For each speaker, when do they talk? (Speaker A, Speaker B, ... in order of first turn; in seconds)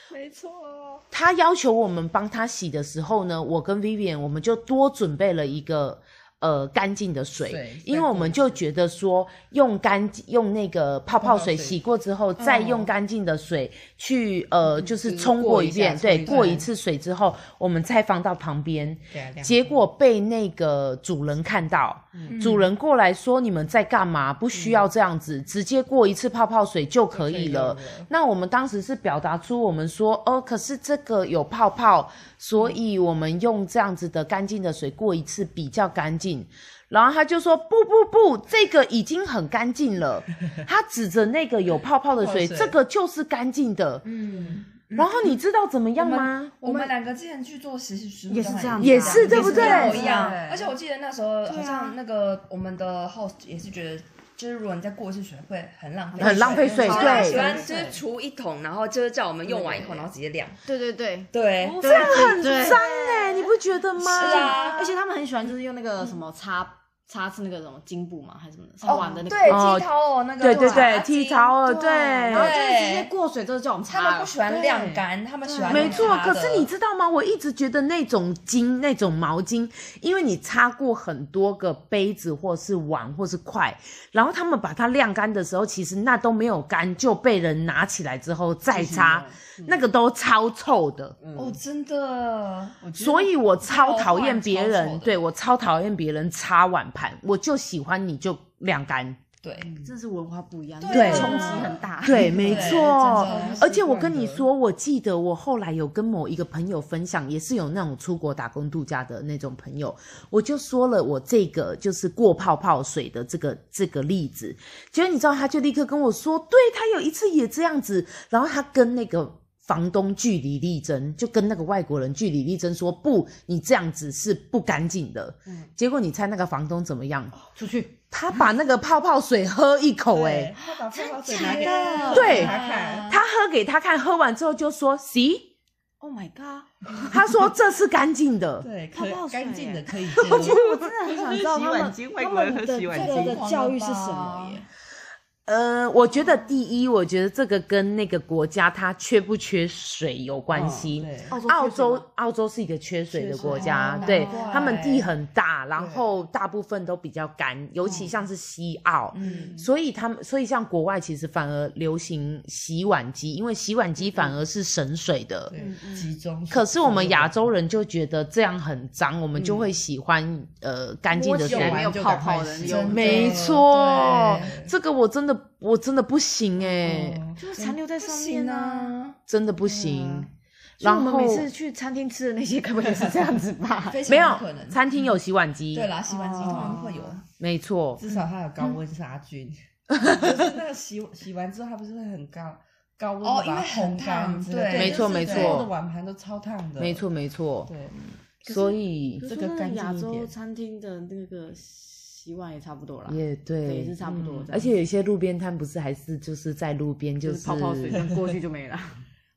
Speaker A: 0.1-1.0, 22.3-22.7, 44.0-45.3, 46.0-60.6, 61.3-62.3, 64.0-65.0, 68.8-71.5, 72.3-73.1, 73.9-76.7, 91.3-95.2, 99.4-99.7, 100.8-103.7, 130.9-133.2, 142.9-144.6, 153.5-155.1, 159.1-159.5, 172.6-174.4, 177.5-179.2, 183.9-184.8, 185.7-187.2, 193.2-195.6
Speaker B: 1.1-44.0, 44.9-46.9, 48.3-50.0, 56.2-57.4, 61.8-64.6, 69.5-69.9, 70.4-72.5, 75.7-91.2, 93.0-99.2, 100.9-101.4, 102.0-127.3, 128.1-130.5, 132.1-132.5, 133.1-135.5, 137.1-138.7, 140.1-140.9, 145.4-165.5, 166.5-171.9, 172.9-177.2, 179.3-180.3, 180.8-181.5, 184.1-185.9, 187.4-188.0, 189.9-190.2, 194.7-195.7, 196.8-197.7, 198.4-199.2, 203.1-204.0, 204.5-208.0
Speaker C: 7.4-8.6, 11.2-11.8, 14.8-16.7, 19.1-19.8, 22.1-22.4, 24.5-24.9, 27.1-28.1, 42.2-42.8, 44.3-44.6, 49.2-50.7, 59.5-59.9, 88.7-89.8, 91.2-91.6, 101.2-101.7, 102.4-104.5, 130.1-133.1, 138.6-143.5, 150.5-151.4, 153.2-154.4, 155.8-156.1, 159.2-159.7, 165.5-167.3, 169.3-169.7, 171.4-174.7, 176.8-177.4, 186.4-187.0, 188.0-197.1, 197.7-197.9, 198.5-200.3, 204.0-204.5, 207.9-208.3
Speaker D: 48.3-50.4, 51.5-52.0, 56.1-58.0, 60.6-69.7, 70.4-76.2, 99.8-103.6, 127.5-127.9, 130.7-132.6, 136.0-137.1, 138.9-144.6, 151.3-152.0, 153.3-154.8, 165.5-166.1, 171.1-173.4, 177.4-178.9, 179.7-180.2, 180.8-184.0, 186.1-187.1, 199.2-204.7, 207.2-209.0